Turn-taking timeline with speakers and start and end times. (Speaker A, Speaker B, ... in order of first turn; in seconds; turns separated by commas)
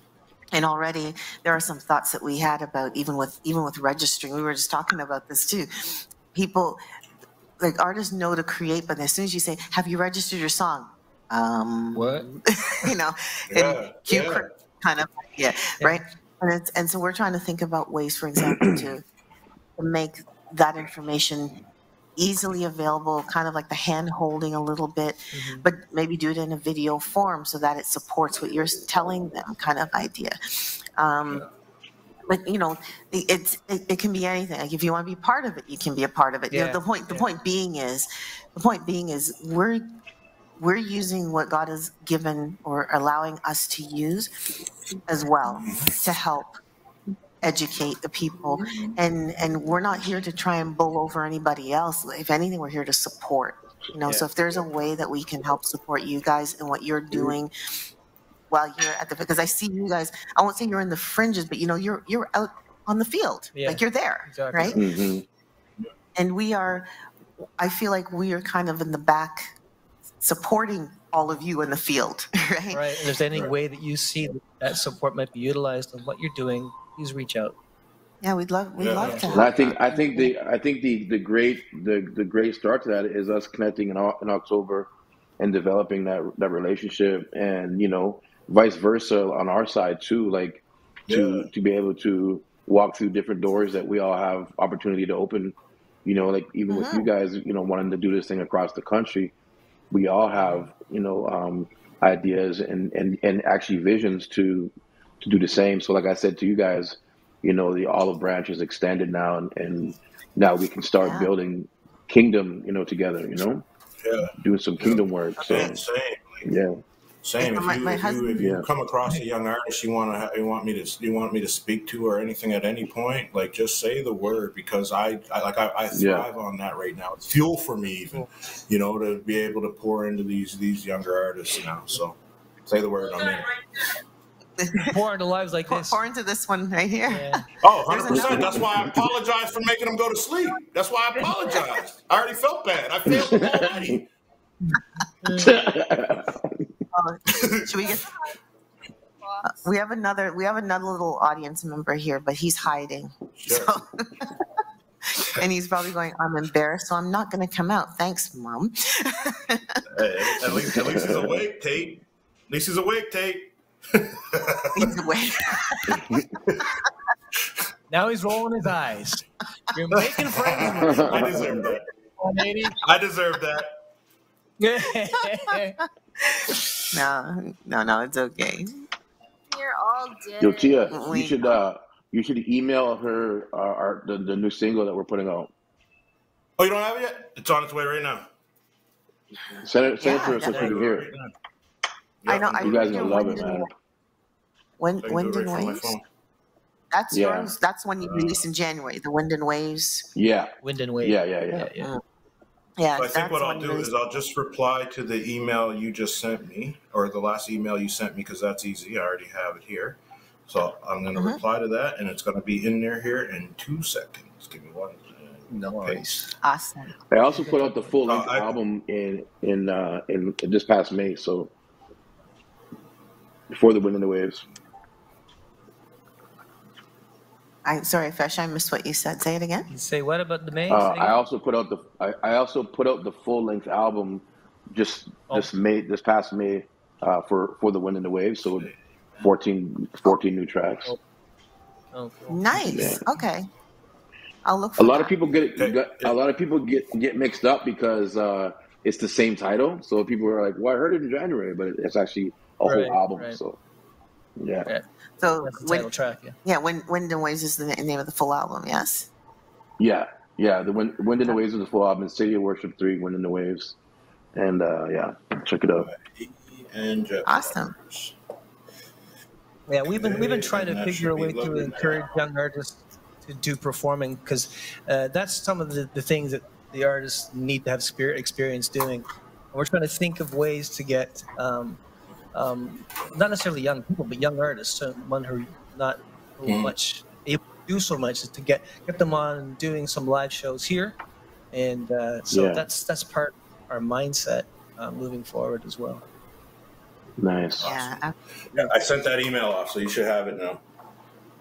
Speaker A: 0.5-6.8, Speaker A: 7.6-19.0, Speaker B: 11.9-12.2, Speaker C: 13.5-14.5, Speaker D: 18.4-18.7, Speaker A: 19.8-21.5, Speaker A: 22.2-30.4, Speaker B: 25.3-25.7, Speaker A: 30.9-31.4, Speaker A: 32.3-39.8, Speaker B: 36.5-37.3, Speaker A: 40.6-44.3, Speaker A: 45.0-46.6, Speaker A: 47.4-57.5, Speaker D: 57.1-57.4, Speaker A: 58.5-64.8, Speaker B: 63.5-64.8, Speaker D: 64.7-65.2, Speaker A: 66.2-66.9, Speaker A: 67.6-69.5, Speaker A: 70.2-72.9, Speaker B: 72.7-77.5, Speaker A: 78.2-80.3, Speaker C: 78.8-79.7, Speaker B: 79.0-79.3, Speaker D: 79.3-99.3, Speaker C: 91.1-91.5, Speaker A: 96.7-97.1, Speaker D: 99.9-113.6, Speaker B: 100.4-100.7, Speaker A: 111.0-111.3, Speaker C: 114.0-116.5, Speaker D: 114.4-115.8, Speaker A: 115.4-115.7, Speaker D: 116.4-116.8, Speaker C: 117.2-133.6, Speaker A: 117.4-118.5, Speaker D: 118.4-118.7, Speaker D: 125.9-126.3, Speaker A: 134.6-135.0, Speaker B: 134.8-136.0, Speaker A: 135.7-138.6, Speaker B: 137.1-137.4, Speaker C: 137.6-144.1, Speaker D: 138.1-139.0, Speaker D: 143.1-144.0, Speaker B: 144.6-145.5, Speaker D: 145.3-146.7, Speaker A: 146.9-148.1, Speaker C: 147.3-147.9, Speaker E: 149.2-149.7, Speaker A: 149.4-154.3, Speaker C: 153.4-153.8, Speaker A: 155.1-160.2, Speaker C: 159.9-165.0, Speaker D: 160.6-161.4, Speaker A: 164.7-166.0, Speaker D: 165.9-166.2, Speaker B: 167.9-171.5, Speaker C: 170.0-171.8, Speaker D: 170.6-171.6, Speaker B: 172.2-172.8, Speaker C: 172.8-173.7, Speaker B: 174.6-175.8, Speaker A: 176.2-178.7, Speaker E: 179.5-181.0, Speaker D: 180.4-185.5, Speaker A: 180.9-181.6, Speaker C: 186.6-188.3, Speaker D: 189.6-191.1, Speaker A: 190.0-190.4, Speaker B: 190.4-190.7, Speaker C: 190.4-191.3, Speaker C: 192.2-193.5, Speaker A: 192.3-193.7, Speaker D: 192.6-193.7, Speaker A: 194.8-195.9, Speaker C: 195.0-196.0, Speaker A: 196.9-200.1, Speaker D: 197.1-197.5, Speaker C: 198.0-198.4, Speaker D: 200.1-201.7, Speaker B: 200.6-201.9, Speaker A: 201.8-202.0, Speaker A: 202.8-203.9, Speaker C: 202.9-216.1, Speaker B: 215.5-216.3, Speaker A: 216.4-216.9, Speaker D: 217.1-221.5, Speaker B: 217.3-217.9, Speaker C: 218.1-218.6, Speaker D: 223.5-224.4, Speaker A: 227.6-229.7, Speaker B: 229.7-231.2, Speaker D: 230.7-240.9, Speaker C: 238.6-239.3, Speaker B: 241.9-242.9, Speaker A: 242.3-243.5, Speaker D: 242.6-243.0, Speaker A: 244.4-245.1, Speaker D: 244.8-253.6, Speaker C: 245.6-246.1, Speaker B: 252.6-253.4, Speaker D: 254.4-254.7, Speaker A: 255.2-255.9, Speaker B: 255.4-256.4, Speaker A: 256.4-259.1, Speaker D: 259.8-263.8, Speaker D: 264.3-265.9, Speaker C: 265.8-268.1, Speaker A: 267.2-267.7, Speaker B: 269.7-281.8, Speaker C: 269.9-272.0, Speaker B: 282.3-291.0, Speaker C: 286.4-286.7, Speaker B: 291.5-296.0, Speaker D: 292.3-292.6, Speaker D: 297.2-297.7, Speaker C: 297.6-298.0, Speaker A: 297.6-298.1, Speaker C: 298.5-300.6